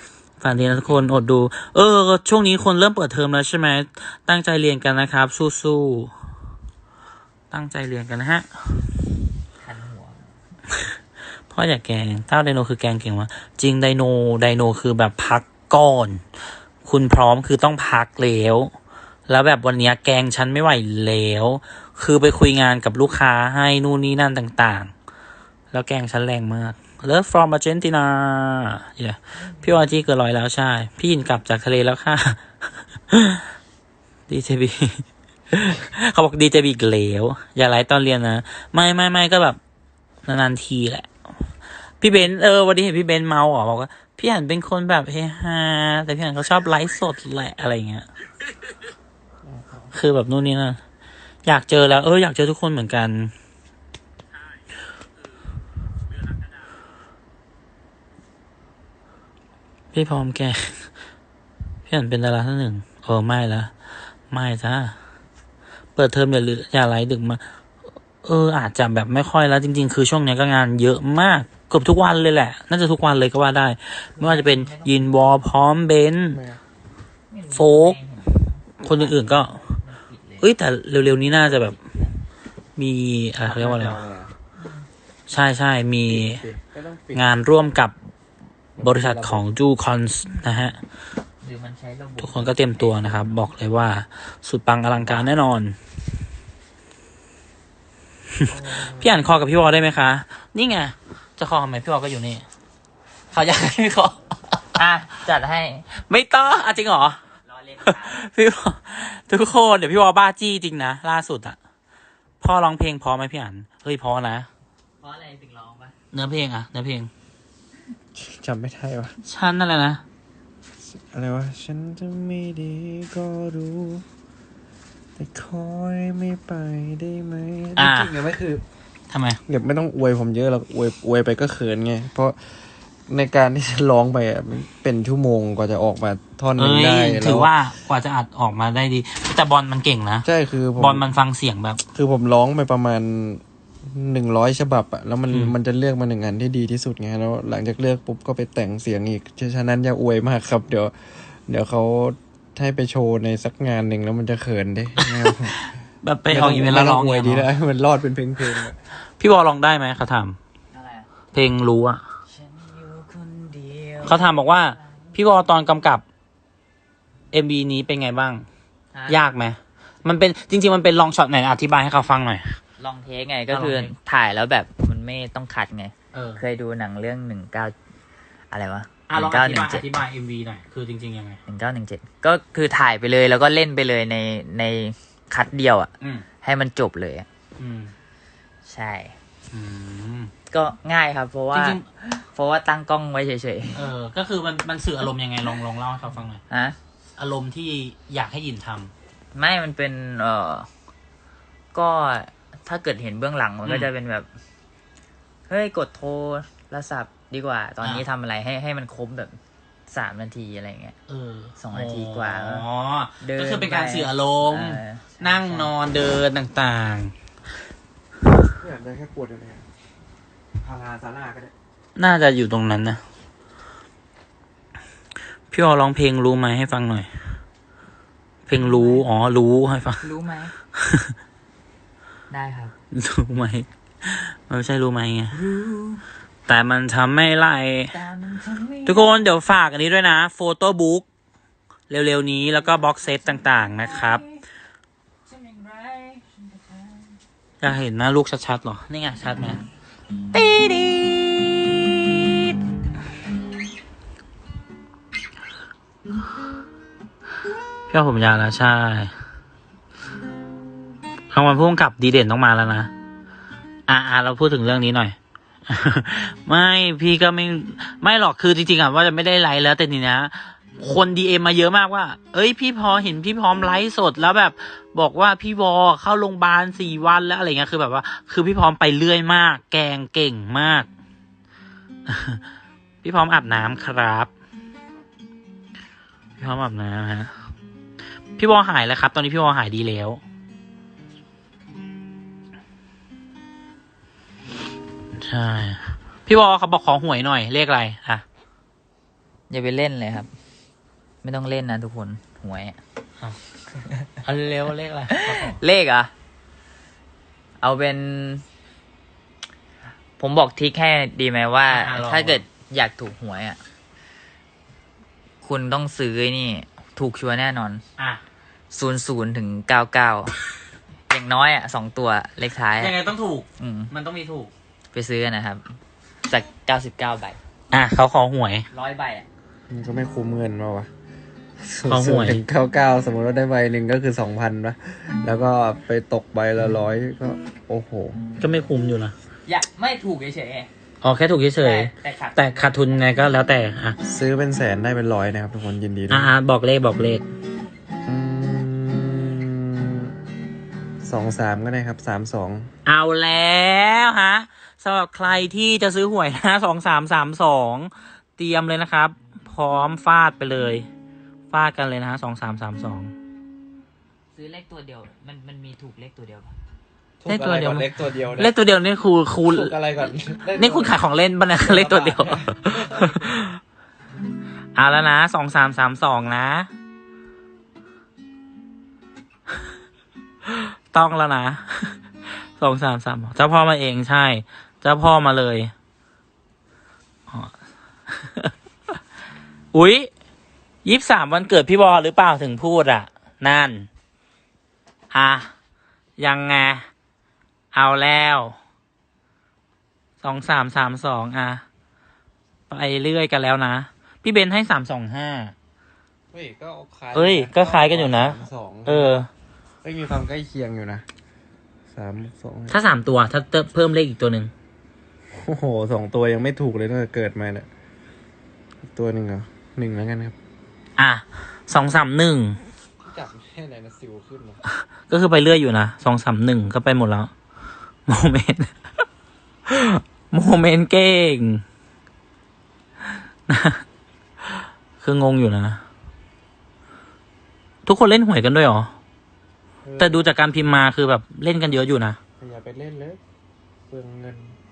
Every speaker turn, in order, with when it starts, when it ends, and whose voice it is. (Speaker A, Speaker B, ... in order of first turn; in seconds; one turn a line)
Speaker A: 0.4-6.1
Speaker A: 7.5-9.0
Speaker B: 9.6-10.3
Speaker A: 10.7-10.9
Speaker A: 11.5-16.2
Speaker A: 16.8-18.7
Speaker A: 19.3-24.9
Speaker A: 25.7-33.5
Speaker A: 34.3-39.6
Speaker A: 40.2-41.1
Speaker A: 42.0-48.0
Speaker C: 49.4-49.9
Speaker A: 49.9-50.8
Speaker A: 51.4-53.3
Speaker A: 59.9-60.8
Speaker A: 61.9-63.7
Speaker A: 64.3-65.0
Speaker A: 65.9-67.4
Speaker A: 68.2-76.4
Speaker B: 74.2-75.4
Speaker C: 76.3-76.6
Speaker B: 77.3-80.5
Speaker A: 77.5-78.0
Speaker A: 78.8-79.7
Speaker A: 80.4-81.8
Speaker B: 81.2-82.2
Speaker A: 82.8-84.0
Speaker C: 83.4-84.3
Speaker B: 84.6-84.9
Speaker A: 85.3-86.4
Speaker C: 86.1-87.3
Speaker A: 87.1-87.9
Speaker C: 88.8-89.4
Speaker A: 88.8-90.8
Speaker B: 91.4-93.2
Speaker A: 92.2-95.8
Speaker A: 98.4-102.4
Speaker C: 98.5-99.1
Speaker A: 103.3-104.6
Speaker B: 104.8-108.2
Speaker A: 105.9-107.2
Speaker A: 107.8-111.6
Speaker A: 112.4-114.5
Speaker B: 115.0-115.9
Speaker A: 116.1-117.1
Speaker C: 118.1-119.2
Speaker A: 119.2-120.0
Speaker C: 120.9-124.0
Speaker C: 125.2-128.6
Speaker A: 127.8-128.2
Speaker A: 129.1-129.4
Speaker C: 129.5-132.4
Speaker C: 133.1-137.5
Speaker A: 136.6-141.8
Speaker C: 140.2-141.0
Speaker C: 141.9-155.6
Speaker A: 155.0-157.5
Speaker C: 156.3-158.8
Speaker A: 159.2-160.4
Speaker B: 160.7-161.1
Speaker A: 161.3-162.0
Speaker B: 162.3-165.1
Speaker A: 164.0-166.0
Speaker A: 167.3-168.4
Speaker B: 168.9-169.2
Speaker A: 169.1-172.6
Speaker B: 172.8-177.8
Speaker A: 173.5-173.9
Speaker A: 176.1-176.4
Speaker B: 178.5-179.9
Speaker A: 179.1-181.4
Speaker B: 181.5-187.3
Speaker A: 187.6-187.9
Speaker B: 188.6-189.2
Speaker A: 189.5-190.3
Speaker B: 190.5-193.8
Speaker A: 191.5-191.8
Speaker A: 193.7-196.4
Speaker B: 196.5-196.8
Speaker A: 197.2-198.9
Speaker B: 199.3-200.7
Speaker B: 201.7-204.3
Speaker A: 203.6-203.9
Speaker B: 205.5-209.3
Speaker A: 207.8-208.1
Speaker B: 209.9-210.9
Speaker A: 211.1-217.1
Speaker B: 211.6-212.6
Speaker B: 213.2-215.7
Speaker C: 218.6-219.7
Speaker C: 220.6-221.5
Speaker A: 221.9-223.0
Speaker A: 225.5-227.1
Speaker A: 228.5-230.1
Speaker B: 228.6-229.1
Speaker B: 230.0-230.5
Speaker A: 230.8-231.1
Speaker B: 232.3-232.7
Speaker A: 232.9-235.4
Speaker B: 235.3-236.0
Speaker A: 236.5-237.9
Speaker B: 237.9-239.3
Speaker A: 238.8-241.1
Speaker A: 241.9-244.2
Speaker B: 243.9-244.4
Speaker B: 245.3-247.2
Speaker A: 247.6-249.6
Speaker A: 250.3-252.6
Speaker A: 257.9-259.1
Speaker A: 261.3-262.9
Speaker A: 263.9-265.1
Speaker A: 265.7-280.9
Speaker A: 282.1-282.4
Speaker A: 283.0-284.3
Speaker A: 286.4-287.3
Speaker A: 288.4-290.2
Speaker A: 295.1-298.2
Speaker B: 299.5-300.3
Speaker B: 301.2-302.8
Speaker A: 304.2-305.6
Speaker B: 305.1-306.1
Speaker B: 307.6-308.4
Speaker B: 310.2-313.6
Speaker A: 311.7-312.4
Speaker B: 315.4-317.8
Speaker B: 318.7-320.4
Speaker B: 321.1-322.9
Speaker A: 322.8-324.5
Speaker B: 323.6-323.9
Speaker B: 324.9-325.7
Speaker B: 326.2-327.4
Speaker A: 327.7-328.6
Speaker B: 328.7-329.3
Speaker C: 329.7-330.9
Speaker C: 331.6-338.2
Speaker A: 331.9-332.4
Speaker A: 338.4-339.1
Speaker B: 339.4-340.7
Speaker A: 341.0-344.0
Speaker B: 341.6-343.1
Speaker C: 344.0-346.3
Speaker A: 346.1-347.2
Speaker C: 348.1-350.1
Speaker C: 351.0-352.7
Speaker A: 352.9-360.9
Speaker A: 361.5-363.1
Speaker B: 364.3-366.5
Speaker C: 367.2-368.5
Speaker A: 367.3-369.8
Speaker C: 369.5-370.9
Speaker A: 370.5-373.6
Speaker C: 371.6-373.3
Speaker A: 374.7-376.7
Speaker A: 380.4-382.0
Speaker A: 382.6-385.7
Speaker A: 388.1-388.5
Speaker A: 389.7-390.1
Speaker A: 390.8-393.9
Speaker A: 395.1-395.5
Speaker A: 396.2-396.8
Speaker A: 397.7-398.6
Speaker A: 400.2-401.6
Speaker A: 402.7-405.5
Speaker C: 406.3-409.2
Speaker A: 407.1-409.3
Speaker C: 409.8-411.0
Speaker C: 411.9-412.8
Speaker A: 412.7-414.5
Speaker C: 415.3-417.7
Speaker C: 418.9-420.4
Speaker A: 421.0-422.6
Speaker C: 423.0-424.6
Speaker A: 425.1-427.3
Speaker A: 428.1-428.7
Speaker A: 429.7-431.6
Speaker A: 433.5-433.8
Speaker A: 435.0-435.8
Speaker A: 437.8-438.9
Speaker C: 439.8-440.3
Speaker A: 440.0-442.2
Speaker C: 442.4-443.2
Speaker C: 443.9-444.6